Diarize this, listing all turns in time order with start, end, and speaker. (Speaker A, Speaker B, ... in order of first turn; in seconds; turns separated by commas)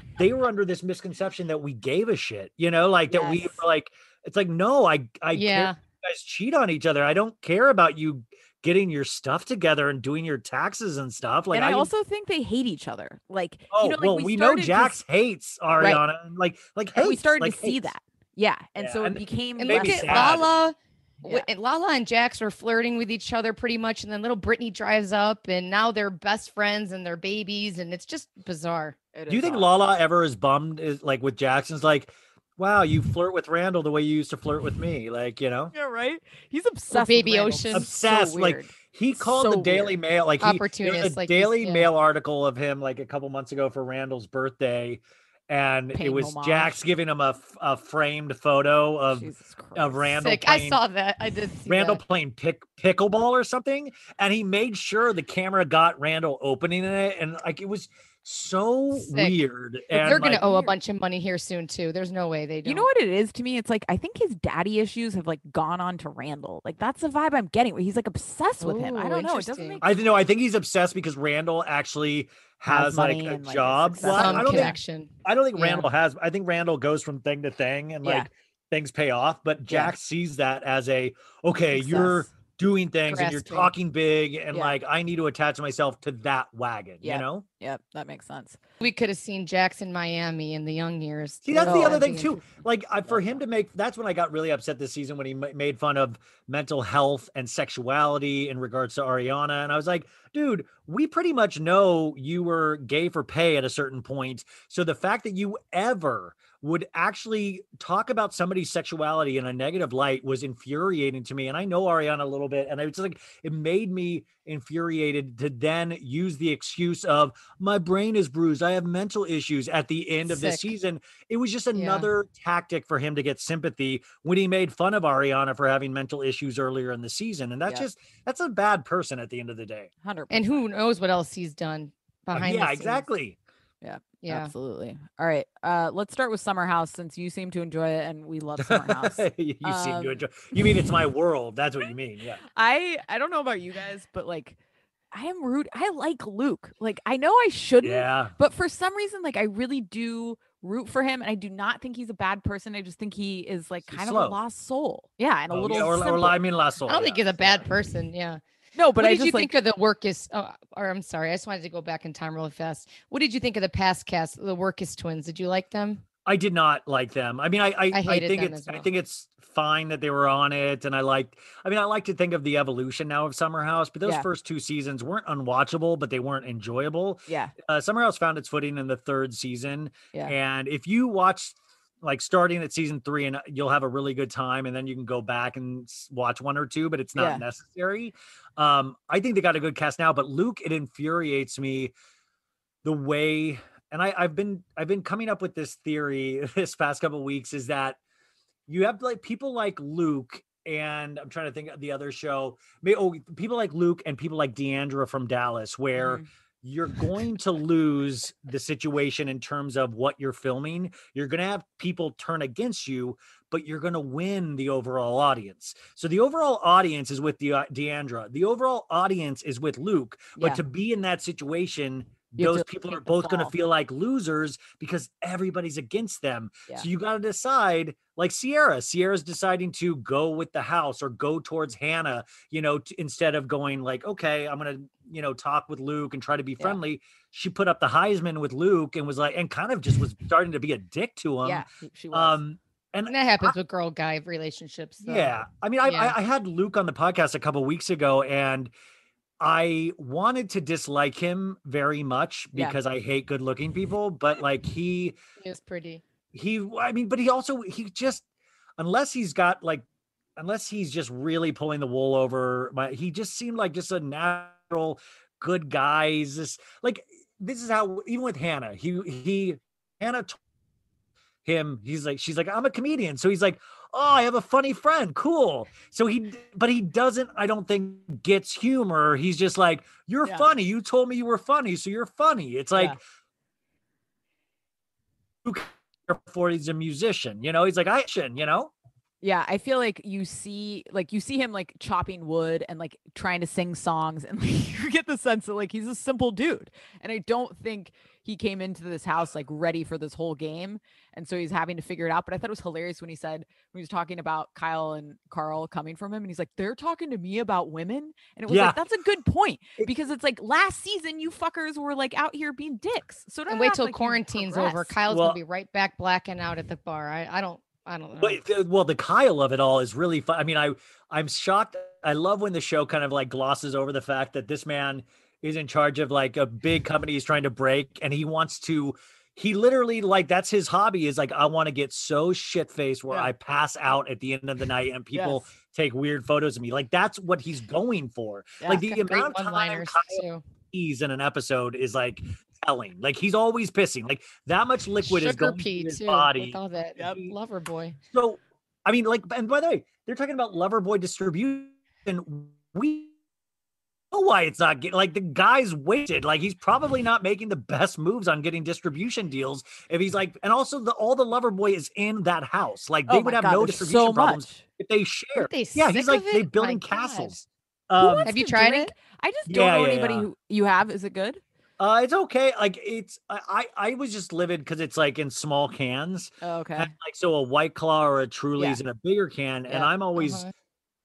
Speaker A: 0.2-11.9, Speaker B: 3.1-3.6, Speaker C: 5.3-5.8, Speaker B: 11.5-15.0, Speaker A: 13.7-17.9, Speaker B: 16.9-20.5, Speaker A: 18.8-20.5, Speaker C: 19.6-28.9, Speaker B: 29.1-29.7, Speaker A: 29.3-35.7, Speaker B: 35.7-40.0, Speaker C: 36.9-37.9, Speaker A: 37.7-50.8, Speaker C: 40.4-41.9, Speaker B: 45.9-46.8, Speaker B: 49.1-50.0, Speaker C: 50.1-52.0, Speaker A: 51.7-60.4, Speaker C: 58.9-59.4, Speaker B: 59.9-60.8, Speaker C: 59.9-62.9, Speaker B: 62.6-69.9, Speaker C: 68.6-69.8, Speaker A: 69.8-87.4, Speaker B: 72.7-74.8, Speaker C: 74.1-75.1, Speaker B: 75.6-75.8, Speaker B: 79.7-79.9, Speaker B: 81.8-82.2, Speaker C: 83.1-83.7, Speaker B: 87.0-88.6, Speaker C: 88.8-92.3, Speaker A: 91.4-129.9, Speaker B: 91.6-92.2, Speaker B: 93.1-93.4, Speaker C: 120.3-120.7, Speaker C: 121.7-122.1, Speaker B: 130.0-130.6, Speaker C: 130.3-133.1, Speaker A: 132.3-133.4, Speaker B: 133.8-140.6, Speaker C: 134.2-134.5, Speaker A: 138.6-142.4, Speaker B: 142.5-144.6, Speaker B: 145.1-156.4, Speaker A: 147.8-148.3, Speaker A: 153.9-154.4, Speaker A: 155.5-157.7, Speaker C: 156.9-158.4, Speaker B: 158.7-159.5, Speaker C: 159.0-166.0, Speaker A: 166.2-191.9, Speaker C: 167.9-168.9, Speaker B: 177.3-177.5, Speaker B: 187.2-187.4, Speaker A: 192.8-198.0, Speaker A: 198.7-243.5, Speaker B: 205.9-206.2, Speaker B: 222.4-223.5, Speaker B: 241.4-242.4, Speaker C: 243.1-246.1, Speaker A: 245.0-248.7, Speaker A: 249.4-255.2, Speaker C: 255.4-256.0, Speaker A: 256.3-258.2, Speaker A: 258.8-259.8, Speaker A: 260.4-270.4, Speaker A: 271.4-283.0, Speaker A: 285.4-288.7, Speaker B: 289.2-314.9, Speaker A: 308.5-308.8, Speaker C: 313.5-318.4, Speaker A: 315.1-315.4, Speaker A: 318.2-346.6, Speaker B: 335.1-335.4, Speaker C: 338.7-340.4, Speaker C: 345.0-348.0, Speaker A: 348.1-353.1, Speaker A: 354.1-368.3, Speaker B: 363.1-364.6, Speaker C: 365.4-367.3, Speaker B: 368.0-371.4, Speaker C: 368.2-368.9, Speaker A: 369.5-370.3, Speaker A: 371.8-380.4, Speaker B: 376.4-376.9, Speaker C: 380.1-380.5